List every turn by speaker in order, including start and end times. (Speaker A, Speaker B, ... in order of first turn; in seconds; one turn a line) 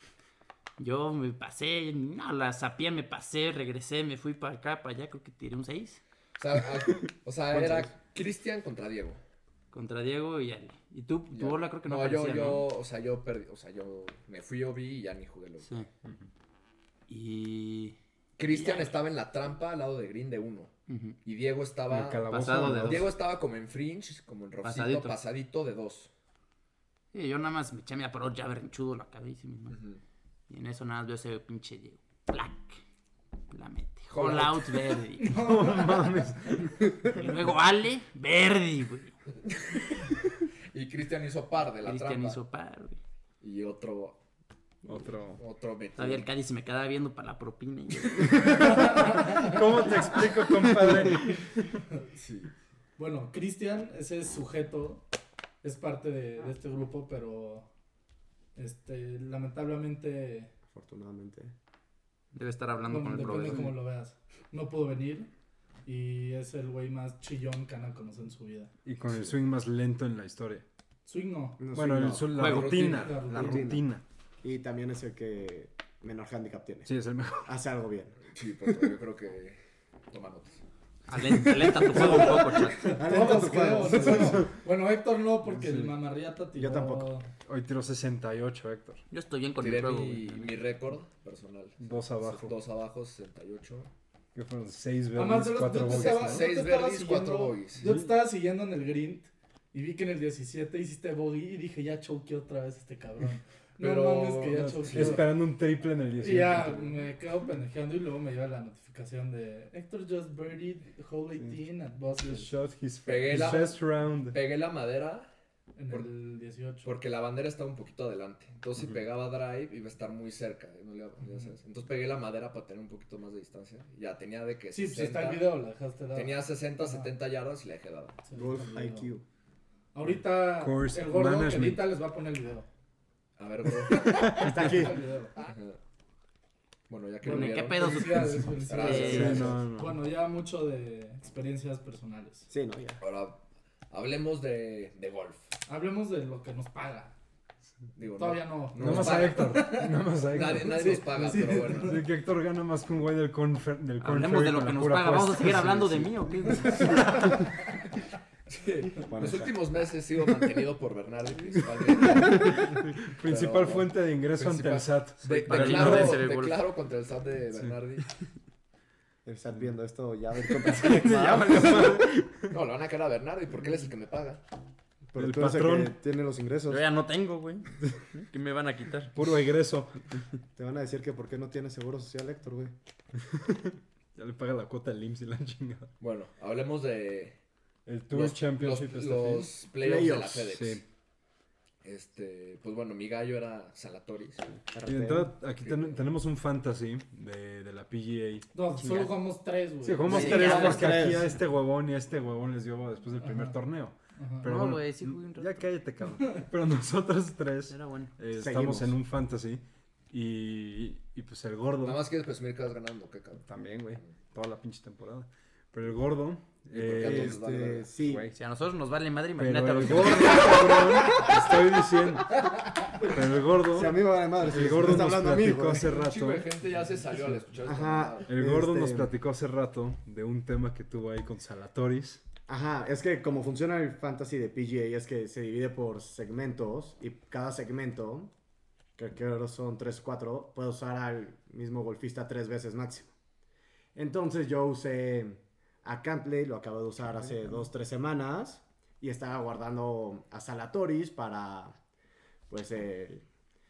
Speaker A: 0.8-6.0
Speaker B: 6.4-9.2
Speaker A: 9.7-12.7
Speaker B: 11.3-15.7
Speaker A: 15.6-15.9
Speaker A: 17.1-19.0
Speaker B: 18.4-20.7
Speaker A: 20.9-21.2
Speaker B: 21.2-22.3
Speaker C: 21.9-23.1
Speaker A: 22.3-23.1
Speaker B: 22.8-26.1
Speaker A: 24.6-25.2
Speaker A: 27.1-29.8
Speaker B: 29.7-30.0
Speaker A: 30.5-32.8
Speaker A: 33.5-35.4
Speaker B: 34.1-34.8
Speaker D: 35.2-36.6
Speaker C: 35.3-37.2
Speaker A: 37.0-39.1
Speaker B: 39.5-40.1
Speaker B: 40.7-42.4
Speaker A: 41.8-43.0
Speaker B: 43.4-44.2
Speaker C: 44.8-45.4
Speaker B: 45.4-46.3
Speaker A: 46.0-48.9
Speaker C: 48.3-51.8
Speaker D: 48.5-49.9
Speaker B: 52.1-52.5
Speaker D: 53.0-55.0
Speaker D: 55.6-57.7
Speaker D: 58.5-60.5
Speaker E: 60.7-61.5
Speaker A: 62.3-63.8
Speaker D: 62.9-65.3
Speaker D: 65.8-68.7
Speaker C: 68.8-70.6
Speaker D: 71.0-71.6
Speaker E: 71.6-72.5
Speaker C: 71.7-74.0
Speaker A: 72.3-72.9
Speaker B: 72.4-73.2
Speaker D: 72.8-73.7
Speaker E: 73.3-73.8
Speaker E: 74.4-76.9
Speaker C: 76.8-77.5
Speaker E: 77.4-78.9
Speaker B: 78.3-79.6
Speaker B: 80.1-80.6
Speaker A: 81.1-82.9
Speaker E: 81.6-84.5
Speaker D: 81.9-87.3
Speaker C: 84.1-84.4
Speaker C: 85.5-85.9
Speaker E: 86.5-87.1
Speaker C: 87.5-89.0
Speaker A: 89.1-90.6
Speaker B: 89.6-93.9
Speaker C: 91.8-92.5
Speaker C: 94.3-96.5
Speaker D: 95.1-105.3
Speaker B: 95.8-97.9
Speaker C: 97.8-98.1
Speaker B: 103.8-105.2
Speaker C: 104.5-107.0
Speaker D: 106.2-112.5
Speaker C: 112.2-114.4
Speaker B: 113.0-115.3
Speaker D: 115.8-116.9
Speaker B: 116.8-125.5
Speaker D: 124.7-127.1
Speaker B: 126.1-128.2
Speaker D: 128.2-129.1
Speaker E: 128.3-129.2
Speaker D: 129.9-132.7
Speaker C: 130.5-131.9
Speaker B: 133.4-134.8
Speaker D: 133.9-135.3
Speaker E: 134.1-134.9
Speaker B: 135.4-135.8
Speaker B: 136.9-138.1
Speaker D: 137.2-142.5
Speaker A: 137.2-139.5
Speaker B: 138.7-139.6
Speaker E: 138.7-139.6
Speaker C: 139.0-140.0
Speaker E: 142.5-143.0
Speaker B: 143.0-145.4
Speaker D: 145.7-147.1
Speaker B: 147.9-149.7
Speaker D: 148.2-152.0
Speaker C: 148.8-151.0
Speaker B: 150.3-152.0
Speaker C: 151.7-157.4
Speaker A: 154.0-157.4
Speaker B: 158.5-168.1
Speaker E: 159.1-159.5
Speaker C: 162.1-166.3
Speaker A: 165.3-166.6
Speaker E: 169.2-172.0
Speaker C: 170.5-172.6
Speaker B: 170.8-172.0
Speaker B: 172.5-174.4
Speaker E: 175.1-176.8
Speaker C: 175.2-175.9
Speaker A: 176.7-179.1
Speaker C: 179.1-180.0
Speaker E: 180.6-182.7
Speaker C: 183.3-185.9
Speaker B: 186.0-187.4
Speaker C: 187.8-189.5
Speaker B: 188.1-190.8
Speaker E: 189.8-190.5
Speaker C: 190.5-190.8
Speaker B: 191.8-194.6
Speaker E: 194.7-195.3
Speaker C: 194.8-199.1
Speaker B: 195.6-196.0
Speaker D: 198.5-200.9
Speaker C: 199.8-212.0
Speaker E: 200.1-201.3
Speaker A: 200.1-200.9
Speaker D: 203.2-203.6
Speaker D: 204.2-204.5
Speaker A: 204.4-205.7
Speaker A: 207.7-208.1
Speaker E: 208.3-208.9
Speaker B: 211.8-213.4
Speaker C: 213.4-217.4
Speaker B: 216.7-217.9
Speaker E: 217.0-218.3
Speaker C: 217.9-218.3
Speaker A: 218.3-220.8
Speaker C: 219.4-226.5
Speaker E: 223.7-225.9
Speaker B: 225.8-228.3
Speaker E: 227.6-229.1
Speaker C: 228.3-232.2
Speaker E: 232.5-238.3
Speaker E: 239.0-243.1
Speaker E: 243.9-251.8
Speaker E: 252.5-253.2